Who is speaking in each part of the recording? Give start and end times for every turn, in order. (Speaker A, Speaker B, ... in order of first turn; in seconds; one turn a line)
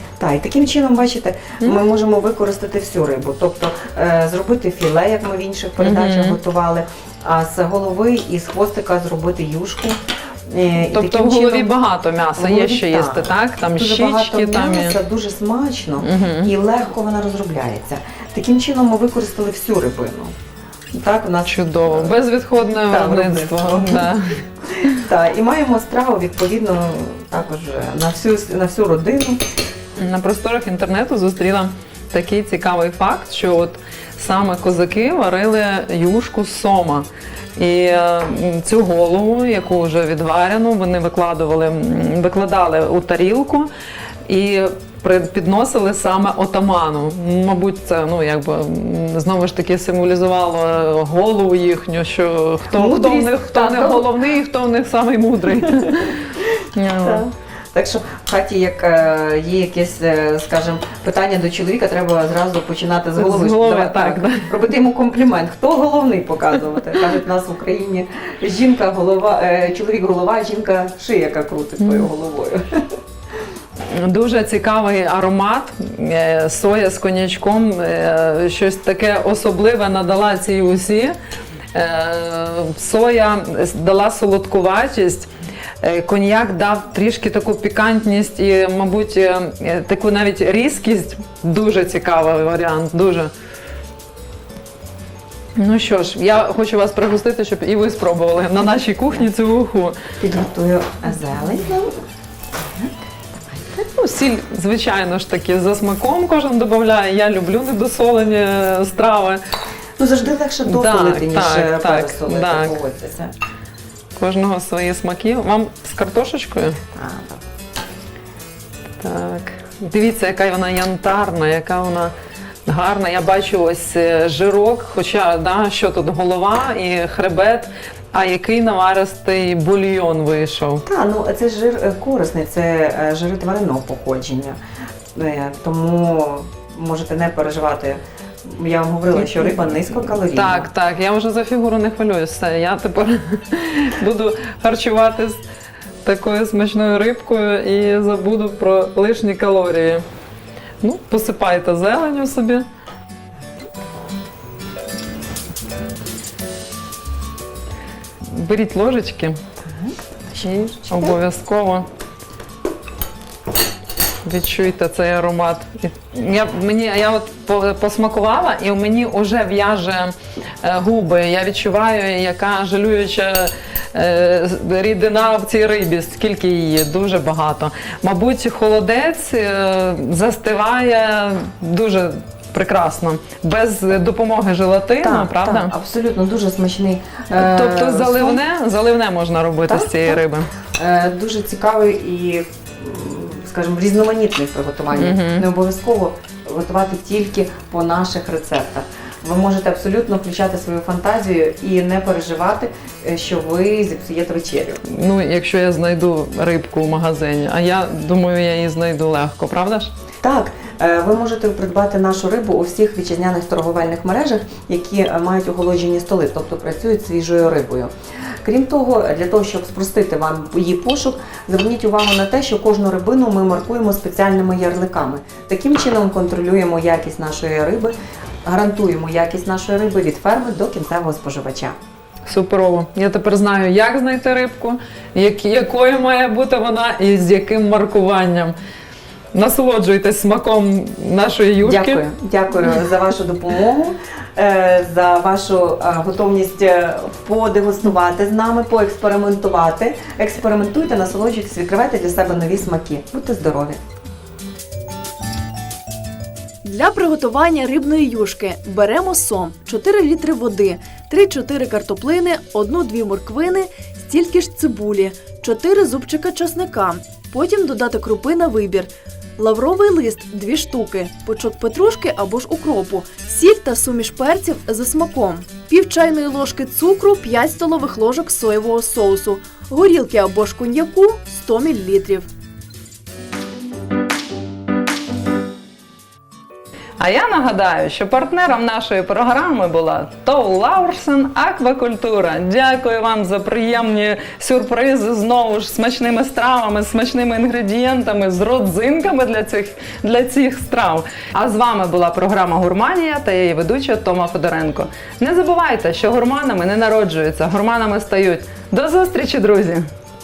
Speaker A: 0.2-11.8
Speaker B: 5.8-6.4
Speaker B: 10.9-15.0
Speaker A: 12.3-20.3
Speaker B: 16.0-16.5
Speaker A: 20.9-22.2
Speaker B: 21.5-25.0
Speaker A: 22.9-24.1
Speaker A: 24.8-29.4
Speaker B: 30.0-43.7
Speaker B: 44.3-57.2
Speaker A: 52.7-54.1
Speaker A: 55.7-56.1
Speaker A: 57.0-72.6
Speaker B: 63.1-64.5
Speaker B: 71.8-72.1
Speaker B: 73.9-81.2
Speaker B: 81.7-85.3
Speaker B: 85.8-93.3
Speaker B: 95.5-100.0
Speaker A: 100.2-102.0
Speaker B: 103.7-109.4
Speaker A: 110.0-113.3
Speaker B: 110.7-112.8
Speaker B: 114.2-116.8
Speaker A: 116.9-117.4
Speaker B: 119.0-122.1
Speaker B: 122.7-130.8
Speaker A: 130.8-134.6
Speaker A: 135.1-140.7
Speaker B: 139.1-145.4
Speaker B: 146.0-150.0
Speaker B: 150.8-152.6
Speaker B: 158.3-159.4
Speaker A: 159.6-161.2
Speaker B: 160.4-161.8
Speaker B: 164.2-185.7
Speaker A: 185.0-188.4
Speaker B: 187.3-190.5
Speaker A: 189.7-190.2
Speaker A: 190.7-204.8
Speaker B: 194.9-195.5
Speaker B: 204.9-209.9
Speaker A: 210.2-217.9
Speaker A: 218.4-227.9
Speaker A: 228.4-231.8
Speaker B: 232.3-238.5
Speaker B: 239.3-242.0
Speaker A: 241.6-253.8
Speaker C: 256.6-282.3
Speaker B: 287.0-309.9